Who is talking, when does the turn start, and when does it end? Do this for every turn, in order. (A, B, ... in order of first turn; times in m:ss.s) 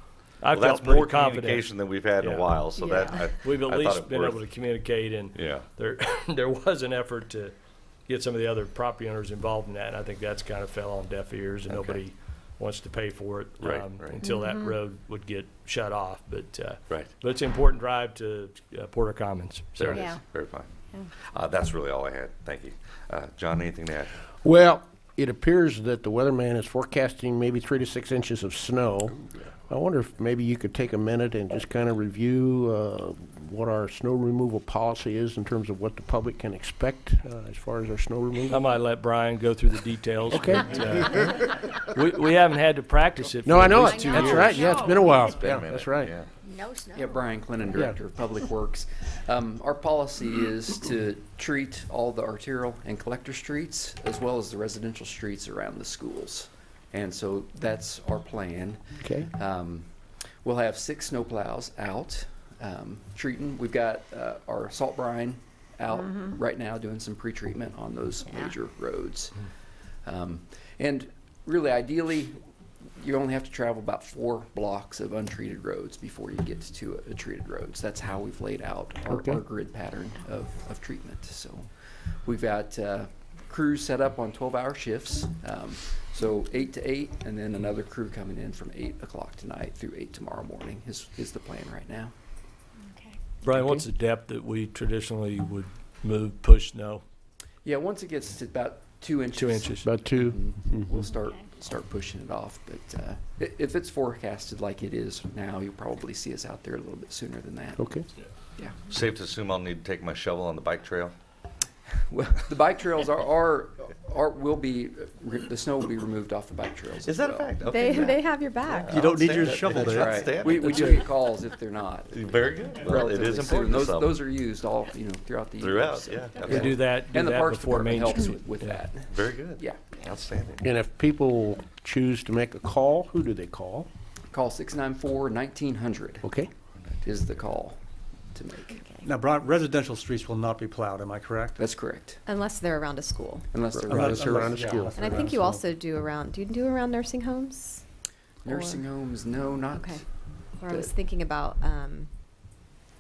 0:00.4-0:01.7 A
0:00.5-0:04.4 B
0:02.2-0:02.5 A
0:02.8-0:03.1 C
0:03.4-0:07.5 A
0:05.4-0:05.7 B
0:08.1-0:20.2 A
0:11.7-0:12.0 B
0:13.6-0:14.3 B
0:14.3-0:14.7 D
0:19.8-0:20.7 B
0:21.3-0:24.1 B
0:24.4-0:38.7 E
0:38.5-0:44.7 A
0:40.3-0:41.2 E
0:43.4-0:46.1 E
0:43.8-0:45.3 D
0:45.2-0:46.3 B
0:46.4-0:47.4 D
0:46.9-0:59.9 F
0:59.0-0:59.3 E
1:00.4-1:09.4 F
1:05.9-1:06.4 D
1:08.2-1:08.5 D
1:10.0-1:12.4 F
1:13.0-1:21.7 F
1:19.1-1:19.4 E
1:22.2-1:32.1 F
1:32.9-1:33.2 D
1:33.4-1:37.0 A
1:33.5-1:33.8 E
1:37.6-1:47.9 F
1:39.3-1:39.9 A
1:39.8-1:41.0 E
1:41.0-1:41.5 D
1:47.8-1:48.1 E
1:48.9-1:51.1 B
1:52.1-1:57.5 F
1:57.0-2:01.0 B
1:57.6-1:59.0 C
1:58.9-2:00.2 G
1:58.9-2:09.8 F
2:00.6-2:01.0 A
2:02.1-2:04.2 B
2:05.6-2:06.8 B
2:06.4-2:08.8 A
2:09.1-2:10.7 B
2:10.6-2:13.9 E
2:14.3-2:16.3 F
2:16.2-2:16.5 E
2:17.0-2:17.8 F
2:18.3-2:18.9 F
2:19.0-2:21.6 G
2:21.6-2:22.2 F
2:22.2-2:23.5 C
2:23.5-2:24.8 F
2:23.7-2:25.0 E
2:23.9-2:25.6 G
2:24.9-2:27.8 C
2:28.4-2:30.9 F
2:28.5-2:28.9 C
2:29.7-2:32.1 C